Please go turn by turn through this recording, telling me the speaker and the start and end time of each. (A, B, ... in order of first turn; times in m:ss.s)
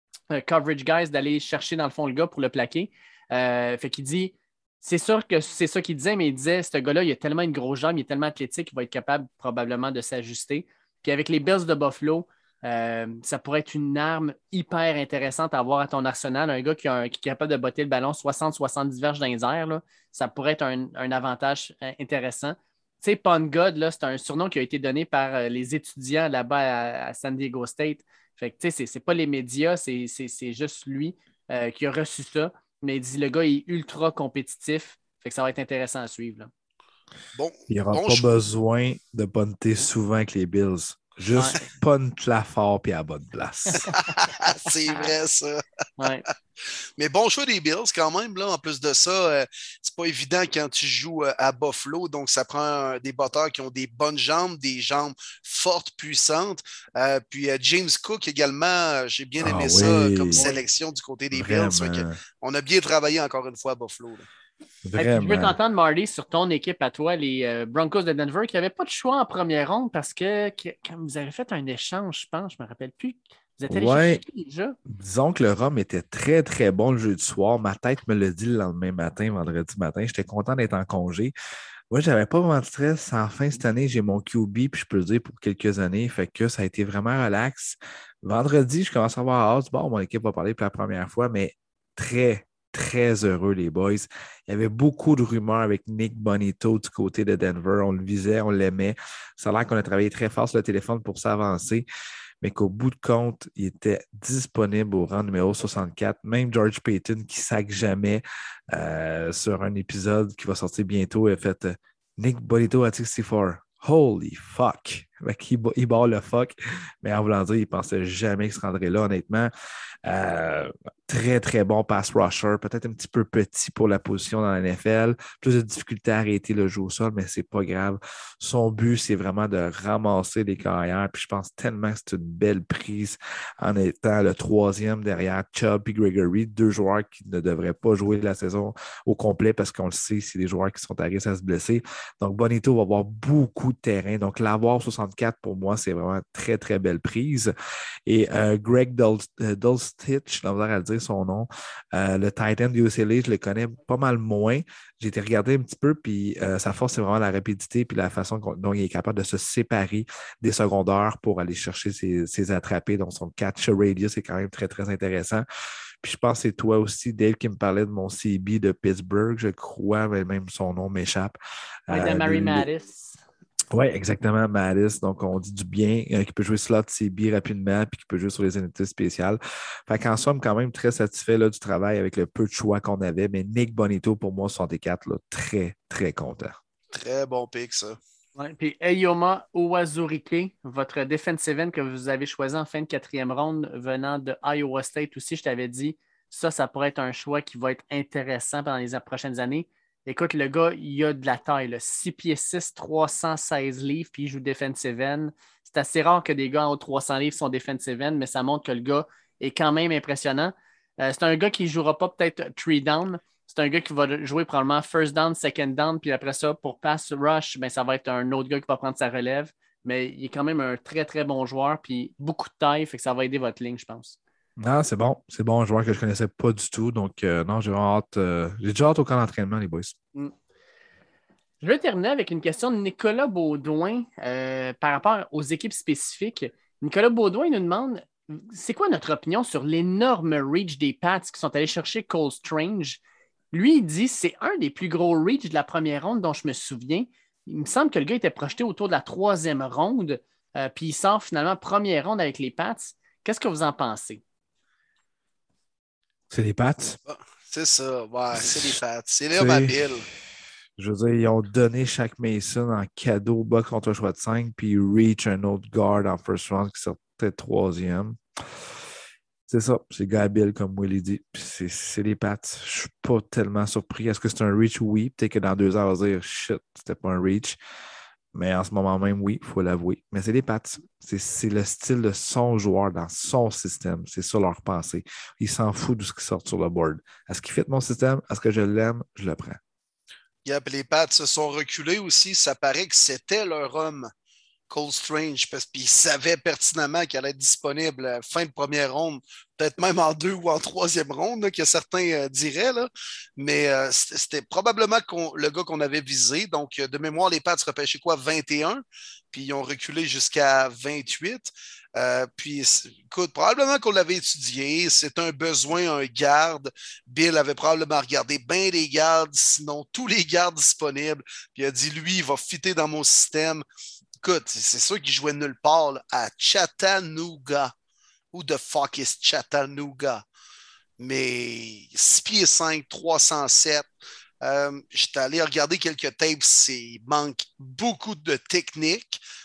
0:00.3-0:36.5 A
0:37.4-0:38.3 B
0:37.7-0:44.0 C
0:41.3-0:41.7 A
0:43.8-0:46.0 B
0:46.0-0:46.2 A
0:47.0-1:04.3 B
0:59.4-1:00.4 C
1:00.3-1:00.6 A
1:01.3-1:02.2 C
1:04.8-1:05.6 C
1:05.0-1:14.8 A
1:13.7-1:14.2 C
1:14.9-1:21.3 C
1:21.9-1:41.8 C
1:42.4-1:59.5 C
2:00.1-2:27.5 C
2:28.1-2:45.4 C
2:46.0-2:51.4 C
2:51.9-2:52.7 C
2:51.9-2:53.2 A
2:53.7-3:06.6 C
3:06.9-3:08.0 B
3:08.4-3:44.2 A
3:44.6-3:50.0 C
3:51.6-4:03.0 A
4:03.5-4:14.2 A
4:16.3-4:17.0 C
4:17.1-4:20.1 B
4:18.3-4:18.8 C
4:19.3-4:20.0 C
4:20.8-4:28.7 C
4:29.5-4:37.6 C
4:38.3-4:49.6 C
4:50.4-4:54.1 B
4:54.7-5:23.6 B
5:24.2-5:27.7 B
5:28.3-5:30.2 B
5:31.0-5:33.9 B
5:34.4-5:39.2 B